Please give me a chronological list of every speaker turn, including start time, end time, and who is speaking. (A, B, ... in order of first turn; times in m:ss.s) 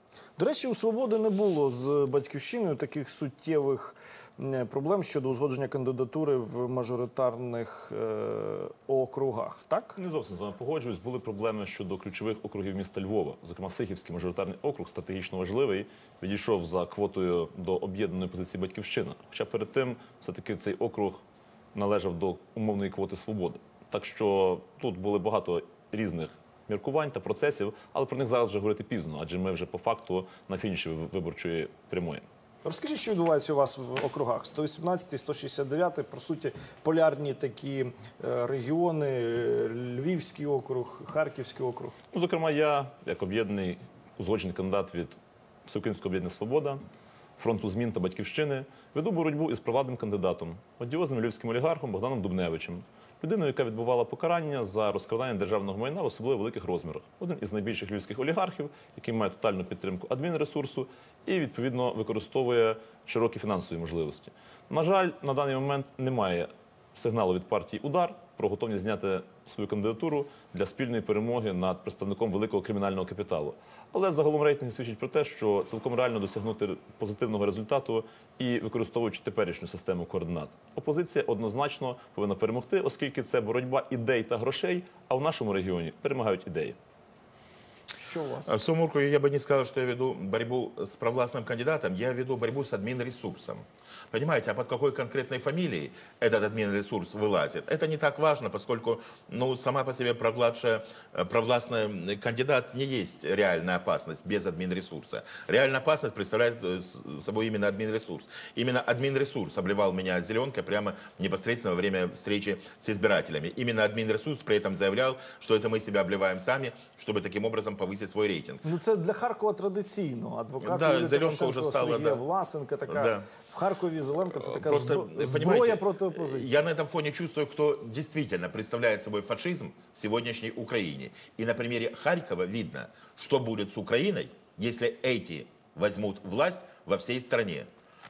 0:00.4-0:10.0 A
0:10.0-0:21.2 B
0:21.7-0:32.2 B
0:32.6-0:42.0 A
0:42.1-0:45.1 B
0:45.6-0:46.8 B
0:47.4-1:26.8 B
1:28.0-1:28.6 A
1:28.4-1:58.6 C
1:58.6-2:06.6 A
2:00.6-2:02.2 C
2:02.9-2:03.3 C
2:04.3-2:17.7 C